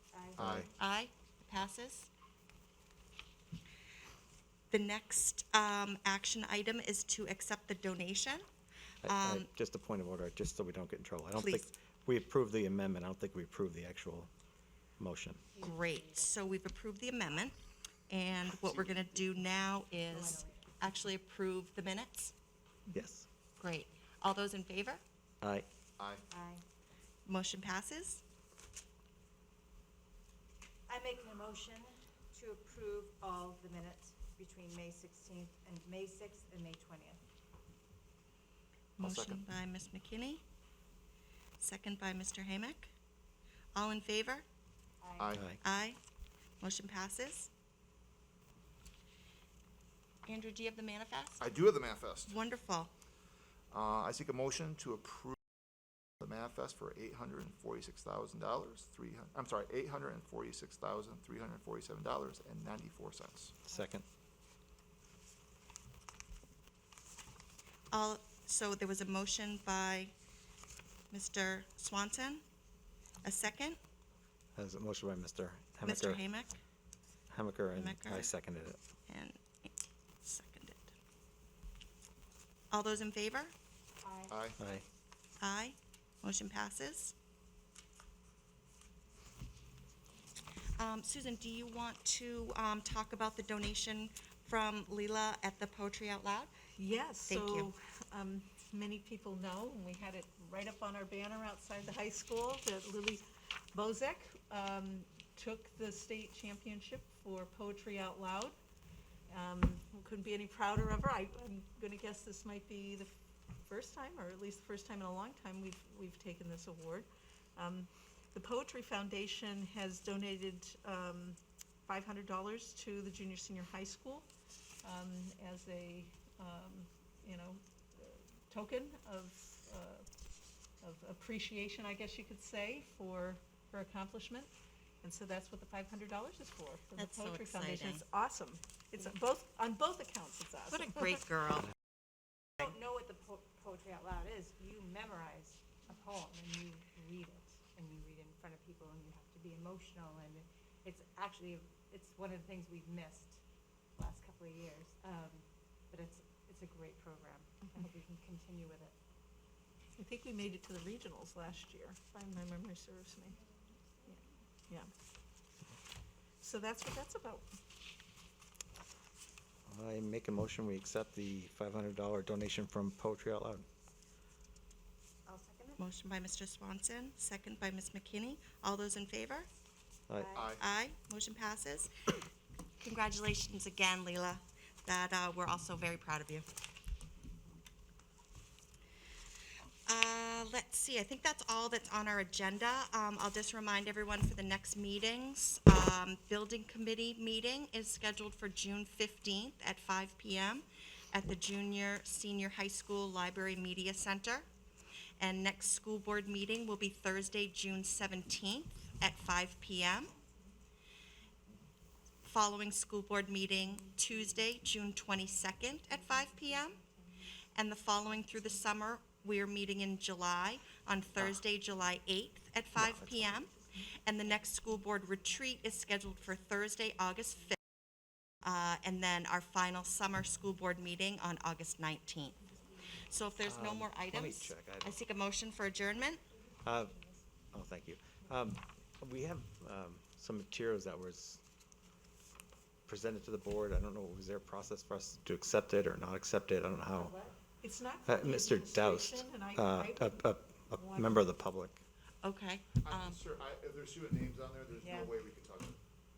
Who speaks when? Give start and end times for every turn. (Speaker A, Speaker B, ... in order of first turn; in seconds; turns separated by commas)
Speaker A: 0.1-0.4, Speaker B: 0.4-0.7, Speaker C: 0.4-0.7, Speaker D: 0.7-2.1, Speaker D: 4.7-8.4, Speaker D: 9.0-9.5, Speaker B: 9.0-14.3, Speaker D: 11.3-11.7, Speaker B: 15.0-15.4, Speaker A: 15.5-16.4, Speaker D: 15.6-17.6, Speaker D: 18.1-22.3, Speaker A: 20.1-20.8, Speaker B: 22.9-23.2, Speaker D: 23.6-25.0, Speaker B: 25.4-25.6, Speaker C: 26.0-26.2, Speaker A: 26.3-26.6, Speaker D: 27.2-28.2, Speaker A: 30.9-37.2, Speaker D: 39.0-40.4, Speaker C: 39.0-39.4, Speaker D: 41.6-42.9, Speaker D: 43.7-44.5, Speaker A: 45.0-45.3, Speaker C: 45.2-45.5, Speaker D: 45.6-46.0, Speaker D: 46.6-47.5, Speaker D: 50.2-51.5, Speaker C: 51.4-52.4, Speaker D: 52.2-52.9, Speaker C: 53.7-55.4, Speaker C: 56.2-63.6, Speaker B: 63.7-64.0, Speaker D: 67.9-70.1, Speaker D: 71.1-72.4, Speaker D: 73.2-73.8, Speaker B: 74.5-76.2, Speaker D: 75.8-76.5, Speaker B: 77.3-78.8, Speaker D: 77.7-78.3, Speaker D: 79.1-79.7, Speaker D: 80.2-80.9, Speaker D: 82.7-83.5, Speaker A: 84.0-84.7, Speaker C: 84.3-84.6, Speaker B: 84.6-84.8, Speaker D: 85.4-87.1, Speaker D: 90.8-96.5, Speaker E: 96.8-108.5, Speaker D: 97.3-97.7, Speaker E: 109.3-113.1, Speaker E: 113.6-124.3, Speaker E: 124.8-130.1, Speaker E: 130.8-141.2, Speaker D: 136.9-138.0, Speaker D: 140.7-141.7, Speaker A: 142.6-153.4, Speaker A: 154.0-158.9, Speaker E: 160.0-163.4, Speaker E: 164.1-164.9, Speaker E: 166.4-167.4, Speaker B: 169.7-173.7, Speaker A: 175.2-175.8, Speaker D: 175.8-179.5, Speaker A: 180.2-180.5, Speaker C: 180.3-180.6, Speaker D: 180.6-181.9, Speaker D: 182.8-186.4, Speaker D: 189.9-204.5, Speaker D: 205.2-210.1, Speaker D: 212.2-216.8, Speaker D: 217.5-227.6, Speaker B: 222.7-223.4, Speaker D: 228.4-236.2, Speaker B: 233.4-234.9, Speaker B: 236.6-241.4, Speaker B: 242.9-247.1, Speaker A: 246.9-247.4, Speaker E: 247.6-251.3, Speaker B: 248.1-251.8, Speaker D: 252.2-253.2, Speaker C: 252.8-255.8, Speaker A: 254.8-255.1